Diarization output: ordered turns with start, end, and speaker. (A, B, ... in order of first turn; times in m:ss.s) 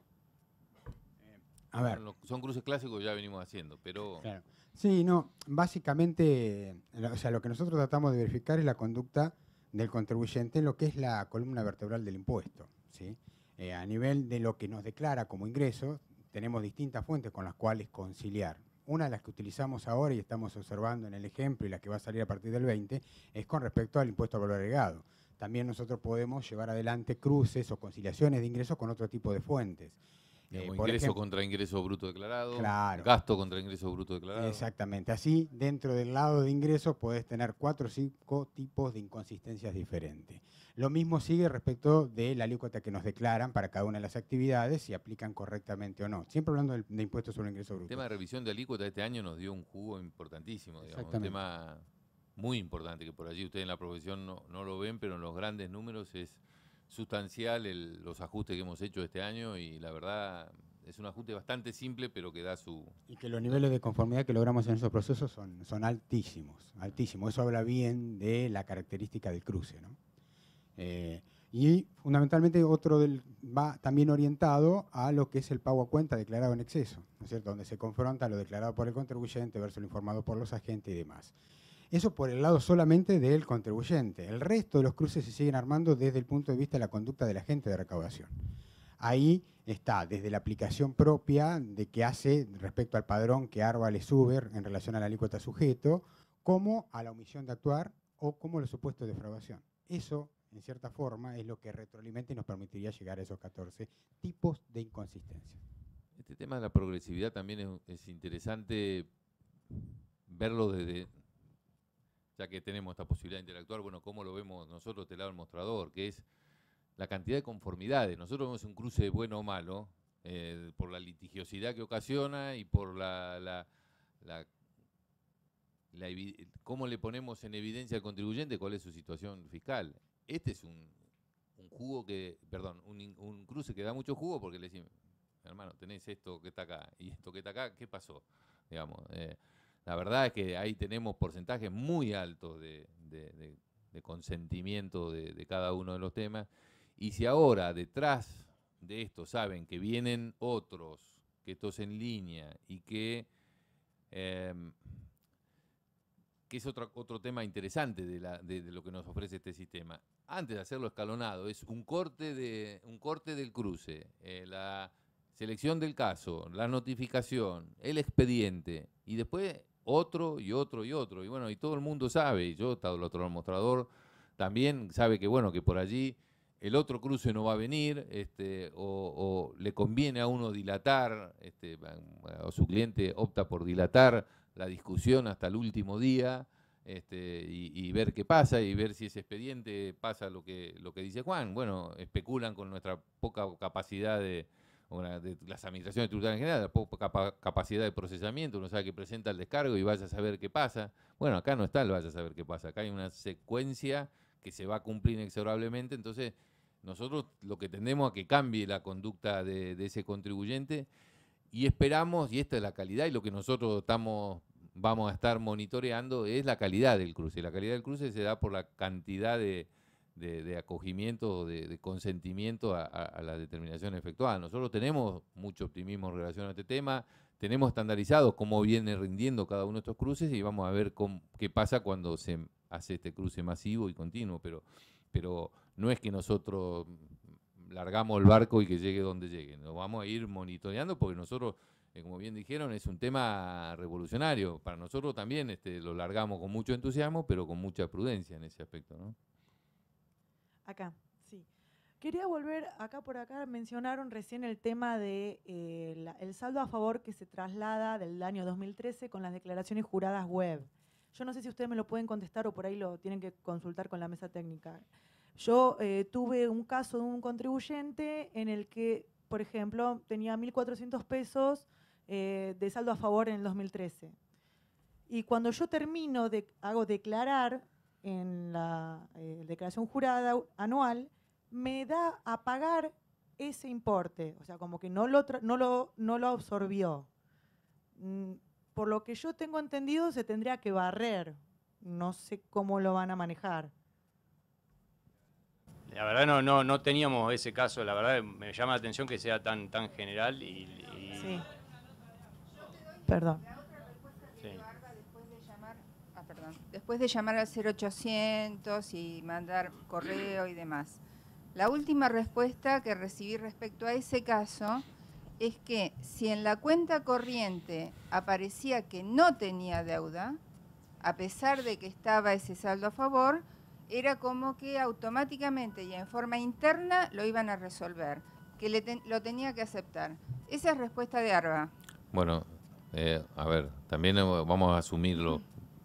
0:01.7-0:02.0 A
0:01.8-0:04.3 B
0:04.2-0:31.2 A
0:30.5-0:34.7 B
0:32.5-0:33.1 A
0:34.3-0:48.1 A
0:47.9-0:51.8 B
0:50.8-0:51.4 A
0:52.4-1:03.0 B
1:03.1-1:10.0 A
1:10.8-1:21.3 A
1:21.9-1:28.4 A
1:29.0-1:45.6 A
1:46.2-1:49.1 B
1:49.7-1:51.2 B
1:52.4-1:56.2 B
1:57.0-2:03.7 B
2:04.2-2:04.5 B
2:05.9-2:11.0 B
2:11.6-2:33.3 B
2:34.1-2:35.0 B
2:36.5-3:30.9 B
3:31.5-4:09.2 B
4:10.6-4:11.5 C
4:12.0-4:24.8 C
4:25.4-4:34.2 C
4:35.1-4:47.1 C
4:48.0-4:53.7 C
4:55.9-5:01.4 D
5:01.2-5:01.4 C
5:03.1-5:03.4 C
5:04.1-5:11.0 E
5:04.4-5:04.6 D
5:11.6-5:14.8 E
5:15.4-5:20.4 E
5:21.0-5:31.7 E
5:32.1-5:35.4 B